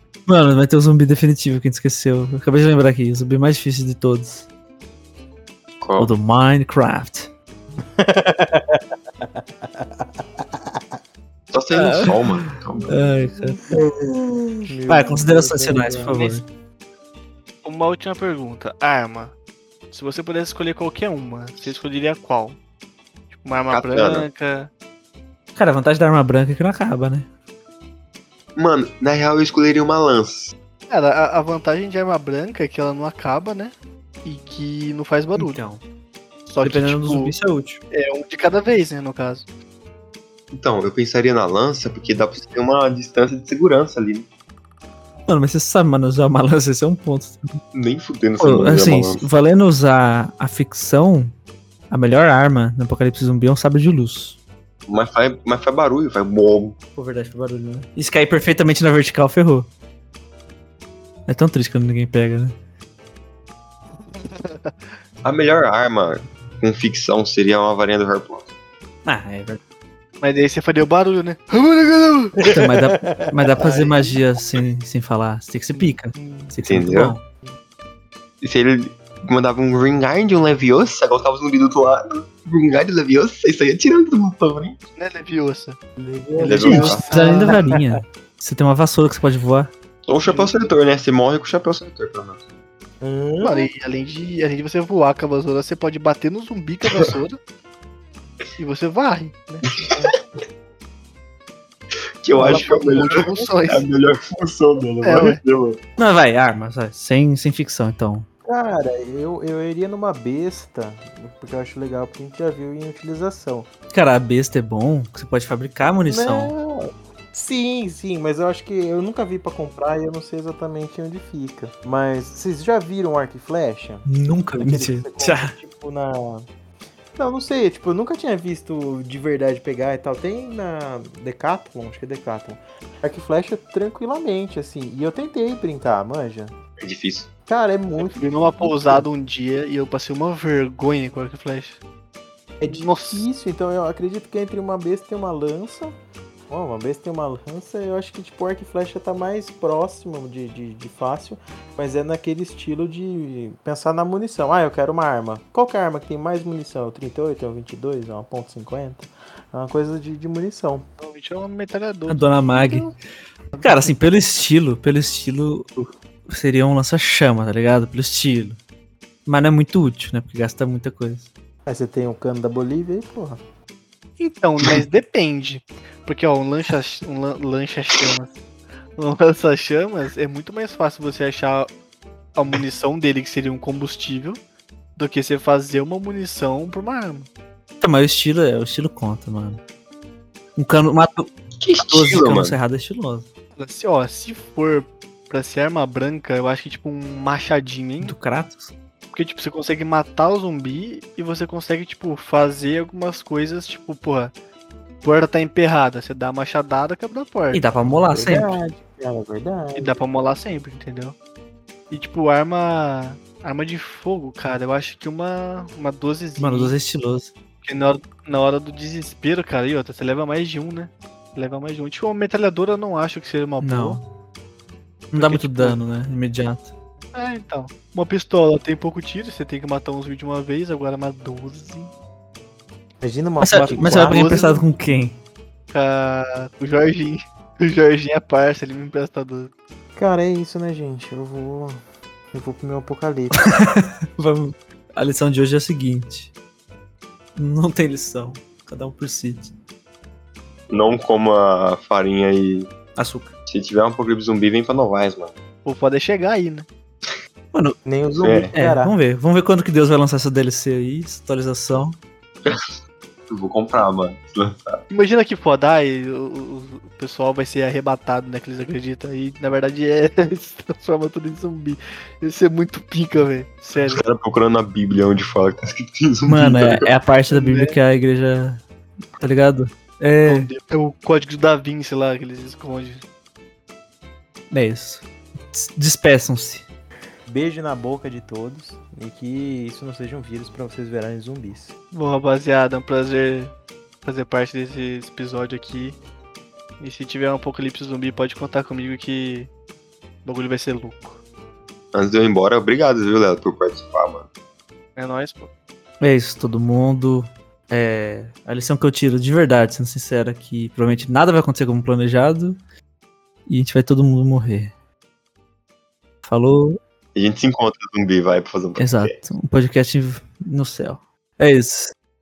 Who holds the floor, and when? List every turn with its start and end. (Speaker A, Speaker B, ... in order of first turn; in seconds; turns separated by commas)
Speaker A: 0.3-4.5, Speaker B: 5.8-6.1, Speaker A: 6.0-7.3, Speaker C: 8.0-10.8, Speaker B: 11.5-13.2, Speaker A: 11.7-16.4, Speaker C: 14.7-16.1, Speaker D: 16.1-16.4, Speaker D: 17.6-19.3, Speaker D: 19.9-22.6, Speaker D: 23.3-24.7, Speaker B: 23.7-24.2, Speaker A: 25.6-27.3, Speaker B: 28.5-30.5, Speaker D: 30.9-33.7, Speaker D: 34.2-35.6, Speaker A: 35.4-35.8, Speaker D: 36.5-37.3, Speaker A: 36.6-37.8, Speaker D: 37.9-39.5, Speaker B: 40.5-44.3, Speaker A: 45.3-47.6, Speaker B: 47.7-49.3, Speaker A: 48.4-51.3, Speaker A: 51.9-54.4, Speaker B: 54.9-56.7, Speaker A: 57.0-59.7, Speaker A: 61.3-62.5, Speaker D: 64.1-64.8, Speaker B: 65.2-68.5, Speaker A: 69.0-69.6, Speaker D: 70.2-72.4, Speaker C: 72.4-73.3, Speaker A: 72.5-77.2, Speaker D: 73.6-74.2, Speaker D: 75.7-76.5, Speaker B: 76.7-77.1, Speaker B: 78.4-84.8, Speaker D: 85.0-85.8, Speaker C: 86.0-87.8, Speaker D: 86.4-87.6, Speaker B: 86.4-87.1, Speaker A: 86.6-89.7, Speaker B: 90.0-92.4, Speaker D: 90.2-90.5, Speaker C: 93.0-93.7, Speaker D: 93.4-97.4, Speaker D: 98.6-99.7, Speaker B: 102.2-105.8, Speaker D: 102.3-103.8, Speaker C: 102.4-103.5, Speaker D: 105.0-105.4, Speaker A: 106.0-108.2, Speaker C: 108.5-113.7, Speaker A: 113.9-116.5, Speaker C: 116.1-126.5, Speaker A: 124.1-125.5, Speaker C: 127.1-136.5, Speaker B: 136.8-137.3, Speaker C: 137.5-139.0, Speaker D: 138.0-141.8, Speaker C: 142.6-145.9, Speaker D: 142.7-143.3, Speaker C: 146.5-160.8, Speaker D: 161.0-162.9, Speaker A: 162.1-162.9, Speaker D: 163.5-163.9, Speaker A: 163.6-168.6, Speaker A: 169.2-171.3, Speaker C: 171.7-173.4, Speaker D: 174.2-178.3, Speaker D: 179.0-181.7, Speaker D: 182.3-184.4, Speaker D: 185.0-187.3, Speaker A: 187.8-189.6, Speaker A: 190.6-193.3, Speaker B: 191.6-192.6, Speaker D: 193.6-198.1, Speaker A: 198.0-198.7, Speaker D: 199.1-204.3, Speaker D: 205.0-207.6, Speaker A: 207.5-208.5, Speaker C: 208.1-210.0, Speaker D: 209.8-211.1, Speaker D: 211.9-216.7, Speaker A: 216.4-217.3, Speaker D: 217.6-224.0, Speaker A: 223.6-224.0, Speaker A: 225.1-226.7, Speaker D: 225.1-225.8, Speaker D: 227.1-231.9, Speaker C: 233.0-234.6, Speaker A: 233.4-235.2, Speaker D: 233.6-234.6, Speaker D: 235.7-239.5, Speaker C: 240.0-241.8, Speaker C: 242.3-243.5, Speaker A: 243.4-246.3, Speaker A: 247.3-249.5, Speaker B: 250.7-252.7, Speaker A: 252.9-253.3, Speaker B: 253.5-255.3, Speaker D: 255.6-256.7, Speaker C: 257.8-258.9, Speaker B: 258.2-258.5, Speaker A: 258.5-262.0, Speaker B: 263.3-264.8, Speaker D: 264.9-274.0, Speaker B: 273.7-276.9, Speaker A: 276.3-278.6, Speaker D: 277.3-277.8, Speaker A: 279.2-280.5, Speaker D: 280.2-283.0, Speaker A: 284.5-286.6, Speaker C: 287.3-291.7, Speaker D: 291.9-293.5, Speaker D: 294.0-296.0, Speaker D: 296.8-299.5, Speaker D: 300.2-301.2, Speaker B: 301.9-304.3, Speaker D: 304.9-305.5, Speaker A: 306.0-312.6, Speaker A: 313.5-314.7, Speaker A: 316.2-316.8, Speaker B: 317.1-319.2, Speaker A: 318.8-321.9